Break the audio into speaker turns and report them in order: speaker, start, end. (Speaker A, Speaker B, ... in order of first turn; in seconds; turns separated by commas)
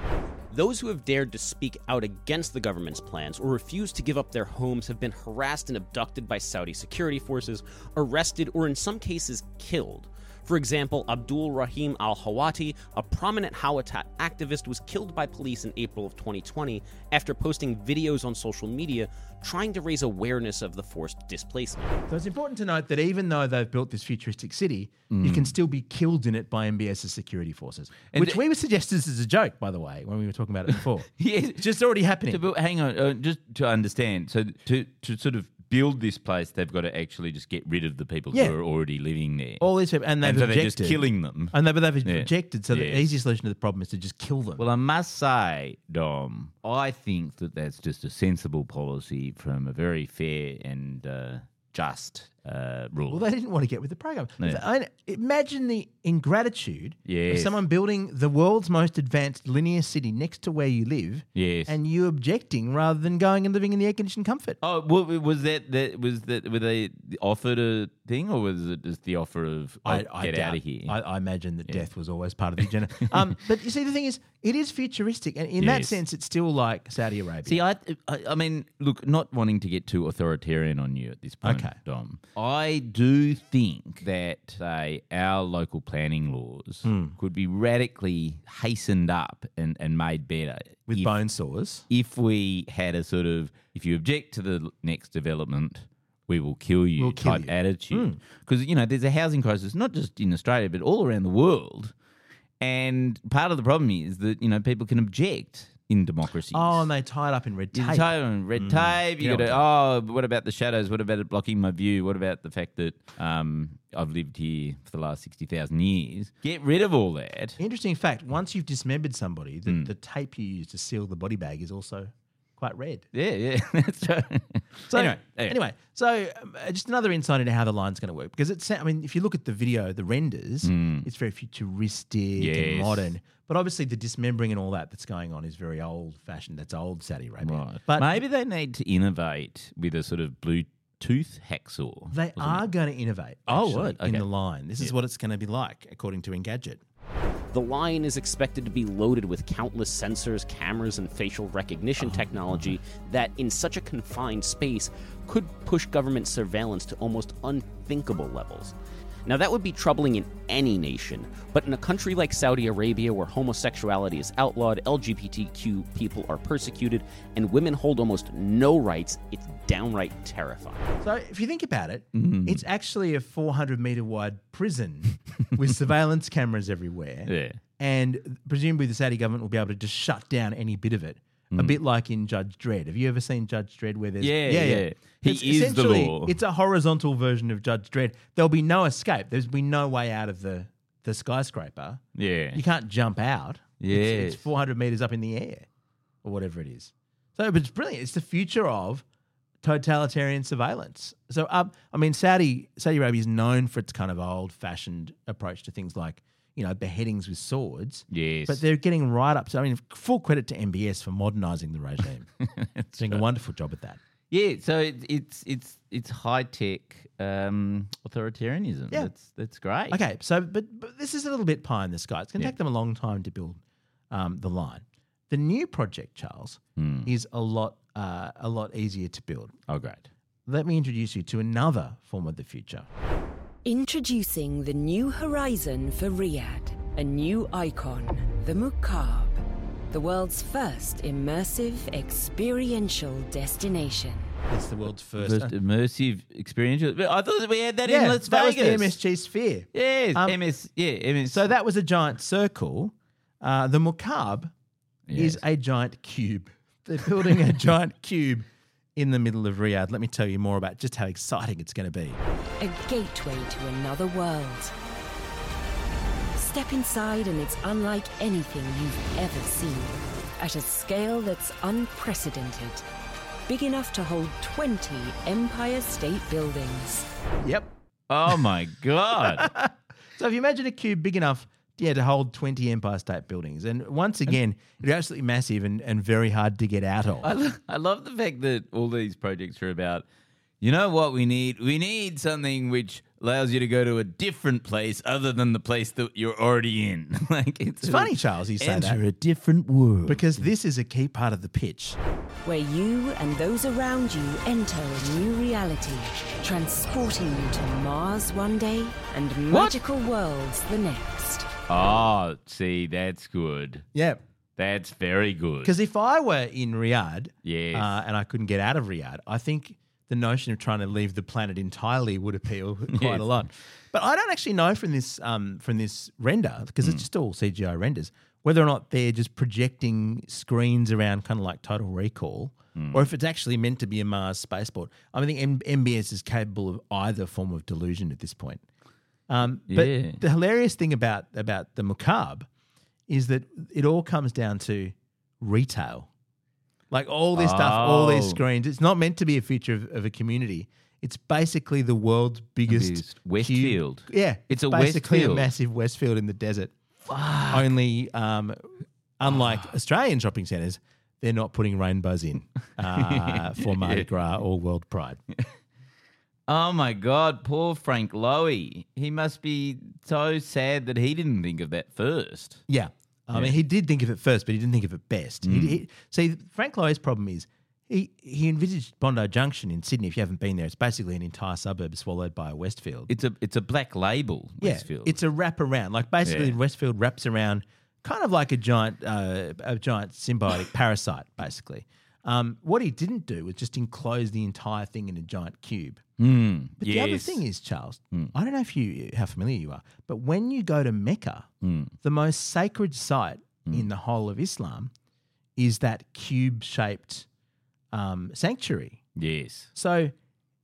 Speaker A: 0.5-22.0, Speaker B: 22.1-32.4, Speaker C: 25.1-25.6, Speaker C: 28.1-28.4, Speaker C: 31.1-31.7, Speaker C: 32.3-39.6, Speaker B: 38.3-38.6, Speaker B: 39.6-44.6, Speaker C: 40.2-43.1, Speaker C: 44.6-53.3, Speaker B: 53.1-64.6, Speaker C: 57.1-57.5, Speaker C: 61.4-61.8, Speaker C: 64.6-71.0, Speaker B: 69.8-77.6, Speaker C: 75.6-76.0, Speaker C: 77.5-91.2, Speaker B: 81.4-81.8, Speaker B: 86.8-87.2, Speaker B: 90.9-91.8, Speaker C: 91.9-102.0, Speaker B: 97.0-98.2, Speaker C: 102.6-106.9, Speaker B: 106.5-109.6, Speaker C: 107.7-117.6, Speaker B: 117.6-123.1, Speaker C: 123.1-125.6, Speaker B: 124.9-138.2, Speaker C: 130.6-131.1, Speaker C: 132.4-133.1, Speaker C: 137.4-142.7, Speaker B: 142.1-146.8, Speaker C: 143.5-144.3, Speaker A: 147.5-158.8, Speaker A: 159.3-170.9, Speaker B: 171.0-192.0, Speaker C: 172.1-172.6, Speaker C: 177.3-177.6, Speaker C: 181.5-181.8, Speaker C: 184.2-186.4, Speaker C: 192.2-192.6, Speaker B: 192.5-195.7, Speaker C: 193.8-194.4, Speaker B: 196.2-199.0, Speaker B: 199.6-212.3, Speaker C: 208.1-208.6, Speaker C: 212.4-213.2, Speaker B: 213.0-214.0, Speaker C: 214.3-220.0, Speaker B: 219.9-229.5, Speaker C: 226.8-227.1, Speaker C: 229.7-230.1, Speaker B: 230.5-232.9, Speaker D: 233.7-244.3, Speaker B: 244.5-245.5, Speaker C: 245.2-249.0, Speaker B: 247.8-250.4, Speaker C: 249.7-251.4, Speaker B: 251.3-254.5, Speaker C: 255.1-255.4, Speaker B: 255.2-262.2, Speaker D: 262.6-264.7, Speaker D: 266.4-272.9, Speaker D: 273.5-277.1, Speaker B: 277.4-277.7, Speaker C: 278.1-279.5, Speaker B: 279.3-287.3, Speaker C: 287.2-290.1, Speaker C: 290.6-300.5, Speaker B: 297.8-299.0, Speaker B: 300.1-302.0, Speaker D: 302.4-311.5, Speaker C: 309.5-309.8, Speaker C: 311.7-313.9, Speaker B: 313.9-314.2, Speaker C: 314.6-315.7, Speaker B: 315.6-338.6, Speaker C: 317.4-318.0, Speaker C: 322.9-323.4, Speaker C: 332.8-333.1, Speaker B: 339.3-342.5, Speaker C: 339.7-340.2, Speaker B: 343.1-346.1, Speaker B: 346.9-356.7, Speaker C: 347.4-348.4, Speaker C: 352.7-355.5, Speaker C: 357.1-357.7, Speaker B: 357.5-358.6, Speaker B: 359.2-365.2, Speaker C: 362.8-364.1, Speaker C: 366.5-372.6, Speaker B: 372.7-383.1, Speaker C: 375.4-375.8, Speaker C: 383.1-385.2, Speaker B: 384.6-396.0, Speaker C: 386.2-386.6, Speaker C: 396.2-397.4, Speaker B: 396.8-401.5, Speaker C: 401.6-401.9, Speaker B: 402.0-404.9, Speaker B: 405.6-407.3, Speaker B: 407.9-409.0, Speaker C: 409.2-409.7, Speaker B: 409.8-410.1